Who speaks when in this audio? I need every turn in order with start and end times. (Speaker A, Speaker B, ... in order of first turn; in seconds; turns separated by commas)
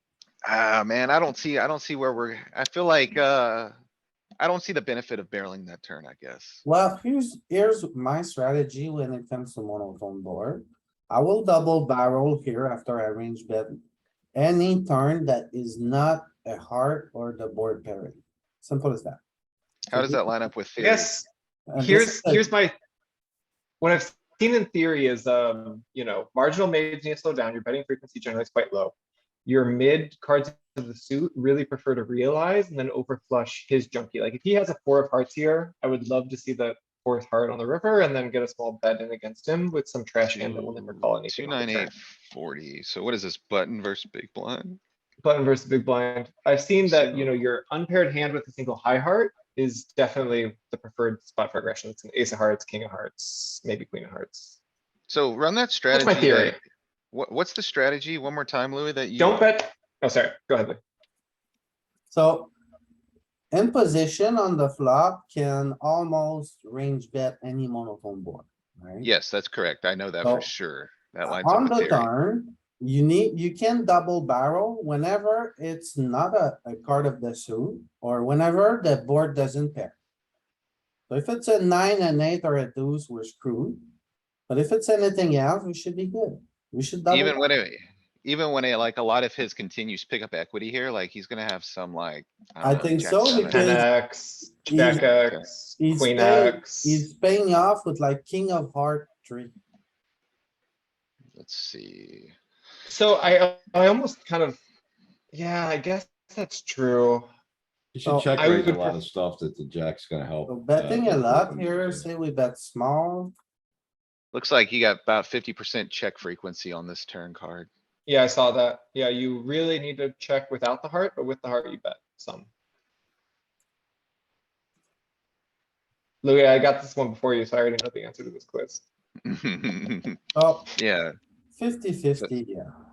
Speaker A: 0.4-3.8, Speaker A: 4.4-6.6, Speaker B: 6.6-13.8, Speaker B: 14.3-19.2, Speaker A: 19.9-21.2, Speaker B: 19.9-20.3, Speaker C: 20.8-21.3, Speaker B: 21.7-22.5, Speaker C: 21.8-22.7, Speaker C: 23.8-28.9, Speaker C: 29.5-41.9, Speaker A: 40.3-44.8, Speaker C: 45.2-54.6, Speaker A: 46.9-47.4, Speaker A: 55.1-56.6, Speaker C: 55.9-56.6, Speaker A: 57.1-59.5, Speaker C: 59.2-60.8, Speaker B: 62.1-62.5, Speaker B: 63.5-69.1, Speaker A: 69.0-72.1, Speaker B: 70.2-70.5, Speaker B: 71.2-80.0, Speaker B: 81.1-83.8, Speaker B: 84.5-87.4, Speaker A: 87.1-93.8, Speaker B: 92.6-93.9, Speaker C: 93.4-97.0, Speaker B: 94.7-95.0, Speaker A: 95.1-95.5, Speaker B: 95.8-99.5, Speaker A: 101.3-102.3, Speaker C: 102.9-104.6, Speaker C: 105.3-107.3, Speaker D: 107.9-112.1, Speaker B: 108.0-108.7, Speaker C: 108.4-109.0, Speaker B: 110.5-113.3, Speaker A: 114.3-117.7, Speaker C: 118.1-122.5, Speaker C: 126.2-128.8, Speaker A: 129.2-130.2, Speaker B: 130.3-130.7, Speaker A: 130.8-131.2, Speaker B: 131.6-132.7